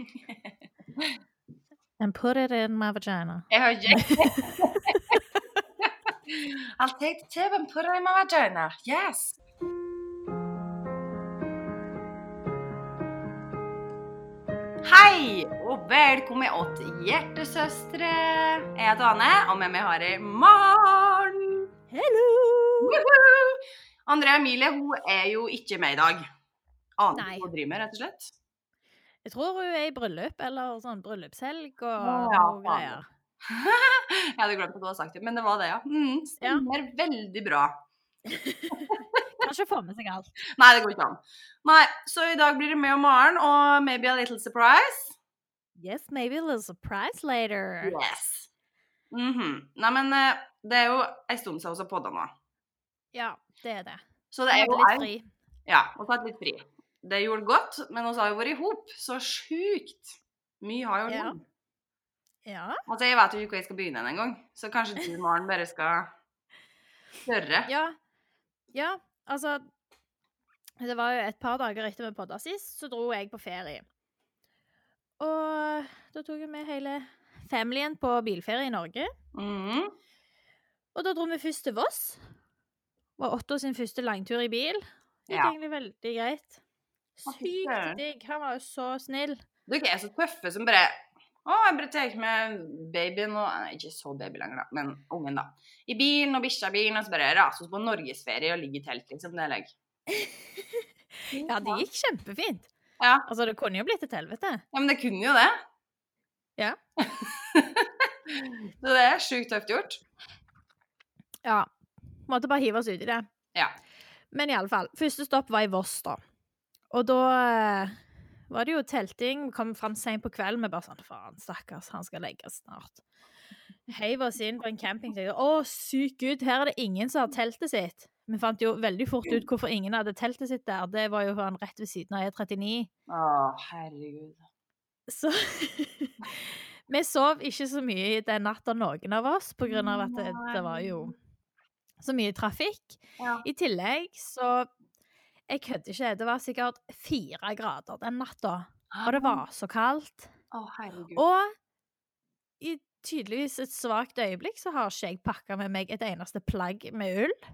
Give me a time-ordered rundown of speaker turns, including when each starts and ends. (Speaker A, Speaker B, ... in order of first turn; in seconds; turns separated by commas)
Speaker A: 2.0-5.0, Speaker B: 3.5-5.2, Speaker B: 5.8-9.4, Speaker B: 14.8-21.7, Speaker A: 21.9-23.1, Speaker B: 22.8-26.3, Speaker B: 27.0-28.3, Speaker A: 27.1-27.5, Speaker A: 29.2-33.1, Speaker B: 32.0-37.8, Speaker A: 36.4-36.7, Speaker A: 38.3-40.4, Speaker B: 38.7-39.2, Speaker B: 40.5-45.1, Speaker A: 45.8-48.0, Speaker B: 47.8-48.5, Speaker B: 49.1-52.3, Speaker A: 53.1-55.3, Speaker B: 54.3-55.1, Speaker B: 55.7-61.4, Speaker A: 61.1-61.4, Speaker A: 62.5-62.8, Speaker B: 62.9-66.1, Speaker B: 67.2-67.7, Speaker A: 67.7-68.0, Speaker A: 68.7-69.6, Speaker A: 70.8-73.8, Speaker A: 75.2-79.1, Speaker B: 79.3-79.9, Speaker A: 80.9-82.2, Speaker A: 83.2-86.6, Speaker B: 85.3-85.5, Speaker A: 87.2-89.4, Speaker B: 87.2-88.0, Speaker B: 89.7-99.7, Speaker B: 101.3-101.8, Speaker A: 101.4-102.7, Speaker B: 103.0-103.3, Speaker A: 103.2-104.6, Speaker B: 104.7-105.5, Speaker B: 107.0-110.0, Speaker A: 111.4-111.7, Speaker A: 112.3-113.3, Speaker A: 114.3-116.2, Speaker A: 116.9-118.0, Speaker A: 118.5-123.0, Speaker A: 123.9-132.9, Speaker B: 133.1-134.4, Speaker A: 135.1-141.2, Speaker B: 139.7-141.1, Speaker A: 142.0-144.7, Speaker B: 143.2-143.4, Speaker A: 145.5-150.3, Speaker B: 148.9-149.4, Speaker B: 150.5-151.2, Speaker A: 151.2-151.5, Speaker A: 152.6-157.4